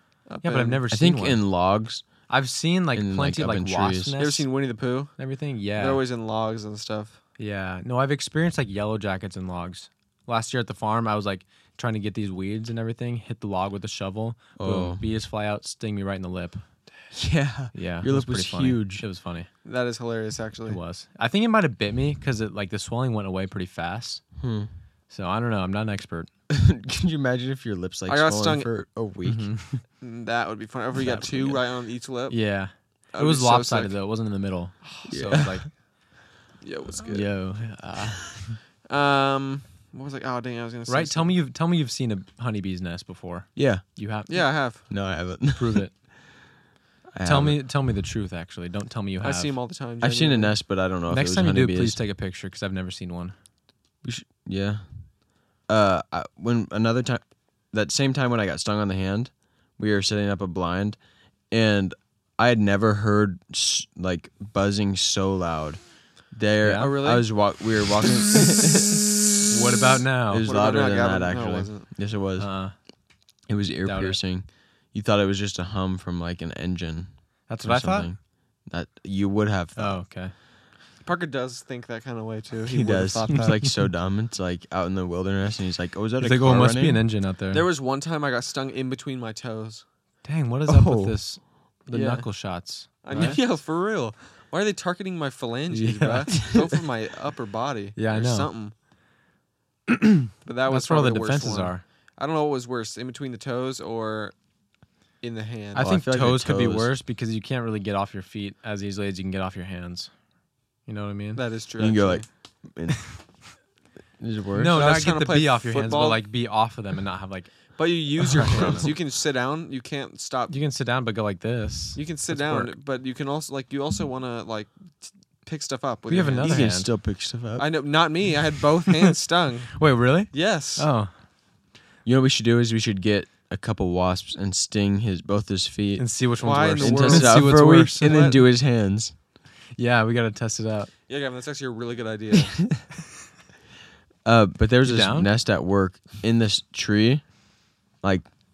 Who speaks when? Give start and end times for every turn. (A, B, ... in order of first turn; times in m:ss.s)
0:00.2-0:00.8 A
0:00.4-0:01.4 B
0:00.9-0:02.1 C
0:02.3-0:04.5 B
0:02.9-0:04.1 C
0:04.2-0:05.2 A
0:05.2-0:06.0 B
0:05.8-0:07.2 A
0:07.4-0:16.6 B
0:14.6-0:15.0 C
0:17.1-0:19.1 C
0:17.7-0:19.5 B
0:19.6-0:20.8 A
0:20.7-0:24.2 B
0:24.4-0:24.7 C
0:25.1-0:26.3 B
0:26.5-0:29.6 C
0:28.1-0:28.7 A
0:29.2-0:29.8 B
0:30.0-0:34.0 A
0:31.0-0:31.6 C
0:32.3-0:35.7 B
0:34.8-0:35.4 A
0:35.1-0:35.6 C
0:36.6-0:37.4 A
0:37.1-0:38.6 B
0:38.9-0:41.4 A
0:40.9-0:44.5 B
0:43.6-0:43.8 C
0:44.3-0:44.9 A
0:44.9-0:45.8 C
0:45.6-0:45.9 B
0:47.1-0:47.6 C
0:47.2-0:49.5 B
0:49.2-0:50.6 A
0:50.0-0:52.0 C
0:51.1-0:53.4 B
0:54.0-0:55.1 C
0:55.7-1:01.0 C
1:01.5-1:09.1 C
1:06.6-1:06.9 B
1:06.8-1:07.5 A
1:09.5-1:10.5 B
1:10.3-1:12.5 C
1:10.5-1:11.9 A
1:12.4-1:12.8 B
1:13.5-1:20.0 C
1:13.8-1:14.2 B
1:17.5-1:18.1 B
1:19.8-1:20.3 B
1:21.0-1:23.6 A
1:22.7-1:27.0 C
1:26.2-1:27.6 B
1:27.5-1:29.8 A
1:30.2-1:33.4 B
1:30.7-1:31.2 C
1:31.9-1:38.7 A
1:33.1-1:33.4 C
1:35.7-1:36.4 B
1:38.0-1:38.5 B
1:39.9-1:41.8 B
1:40.4-1:44.3 A
1:45.2-1:45.9 A
1:45.7-1:50.1 B
1:45.8-1:47.0 C
1:50.9-1:51.4 B
1:51.4-1:52.3 A
1:51.8-1:53.1 C
1:54.2-1:54.8 C
1:54.6-1:58.9 B
1:54.7-1:56.2 A
1:57.8-2:00.6 A
2:00.5-2:02.7 B
2:02.0-2:06.8 A
2:06.1-2:06.9 B
2:06.4-2:07.7 C
2:07.6-2:10.9 A
2:09.8-2:11.1 B
2:12.0-2:19.2 C
2:16.0-2:18.2 B
2:16.4-2:18.4 A
2:19.8-2:20.9 B
2:21.1-2:22.7 A
2:24.2-2:27.3 C
2:24.8-2:25.3 B
2:28.0-2:28.3 C